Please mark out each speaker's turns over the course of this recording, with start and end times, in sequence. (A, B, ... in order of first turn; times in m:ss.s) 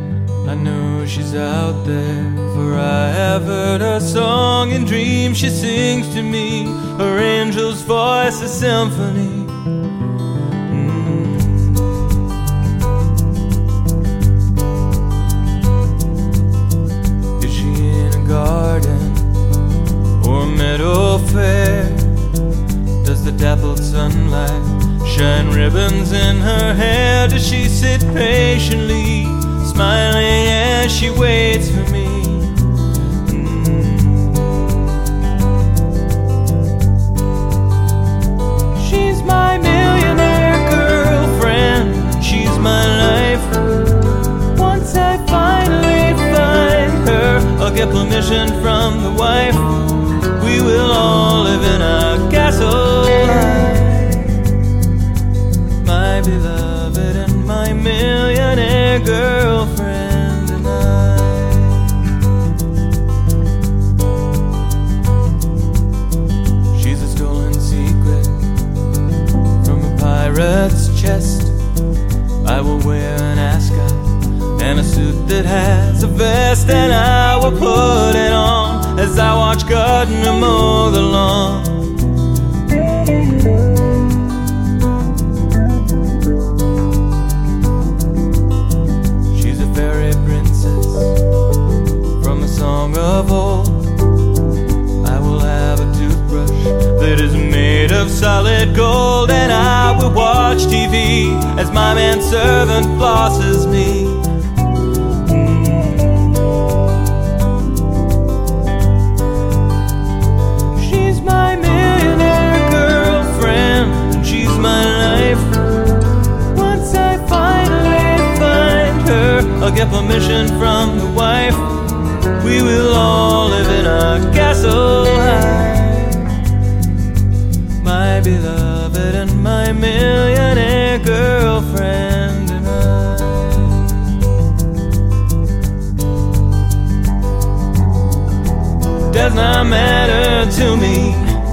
0:00.4-0:09.6 A
0:10.7-0:12.2 A
0:17.4-0:19.4 A
0:20.2-0:22.3 A
0:23.0-0:32.6 A
0:33.2-0:35.0 A
0:38.8-0:43.6 A
0:44.5-0:54.4 A
0:55.8-1:01.9 A
1:06.7-1:08.5 A
1:09.6-1:11.6 A
1:12.4-1:22.1 A
1:22.7-1:24.1 A
1:29.3-1:31.2 A
1:32.2-1:34.0 A
1:35.0-1:44.3 A
1:45.3-1:46.6 A
1:50.8-1:55.6 A
1:56.5-2:06.4 A
2:07.8-2:13.9 A
2:19.1-2:21.3 A